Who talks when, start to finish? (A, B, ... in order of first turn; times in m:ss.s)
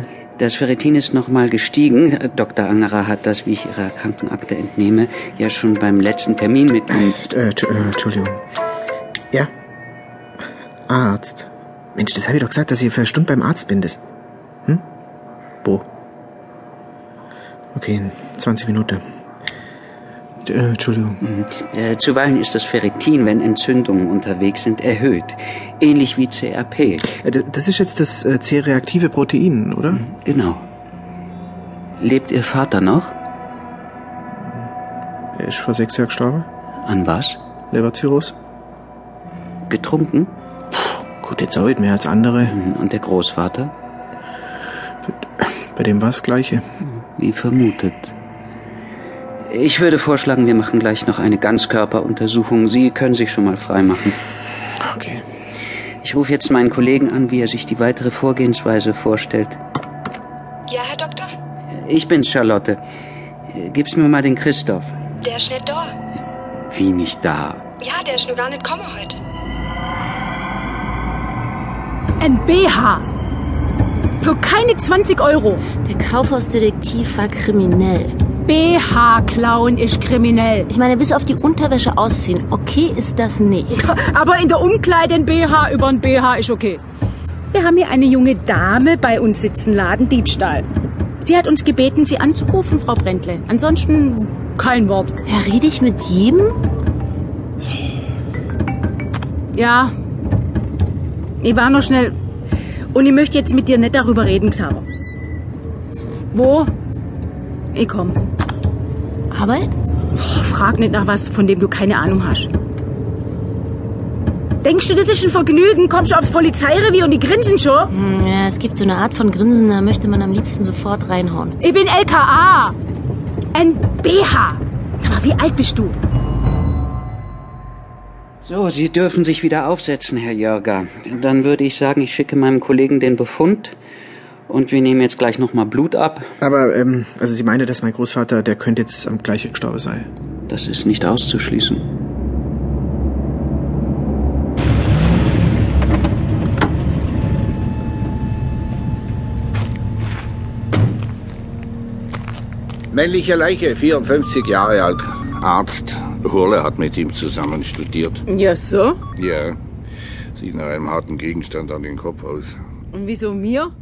0:00.4-0:07.2 A
0:06.9-0:08.4 B
0:10.9-0:14.0 B
0:17.7-0:19.0 B
0:20.4-0:21.2 B
0:21.2-0:27.1 A
0:27.1-0:30.0 B
0:30.0-0:30.6 A
0:32.0-0:33.1 A
0:35.4-0:36.4 B
0:36.8-0:37.4 A
0:37.7-0:38.3 B
0:39.7-0:40.3 A
0:40.7-0:42.6 B
0:42.4-0:43.7 A
0:45.1-0:46.6 B
0:46.9-0:48.1 A
0:49.5-0:54.2 A
0:54.8-0:55.2 B
0:56.0-0:59.6 A
1:00.7-1:01.3 C
1:01.7-1:02.8 A
1:03.5-1:04.9 A
1:05.2-1:05.9 C
1:06.7-1:07.6 A
1:07.8-1:09.2 C
1:12.2-1:13.0 D
1:14.2-1:15.6 D
1:15.7-1:18.1 E
1:18.4-1:20.7 D
1:20.7-1:23.9 E
1:23.8-1:26.8 D
1:27.5-1:30.7 D
1:31.2-1:35.1 D
1:35.2-1:36.5 E
1:39.5-1:39.9 D
1:41.4-1:42.1 D
1:42.9-1:44.8 D
1:46.3-1:46.7 D
1:47.7-1:48.2 D
1:49.3-1:49.7 E
1:50.2-1:52.5 D
1:54.6-1:57.9 D
1:57.9-2:01.6 E
2:01.6-2:02.8 D
2:03.5-2:06.0 D
2:08.4-2:13.8 A
2:14.5-2:16.3 A
2:16.4-2:20.1 B
2:20.5-2:21.8 A
2:32.9-2:38.2 F
2:38.3-2:39.0 D
2:39.2-2:39.6 F
2:40.4-2:42.6 F
2:42.9-2:43.7 D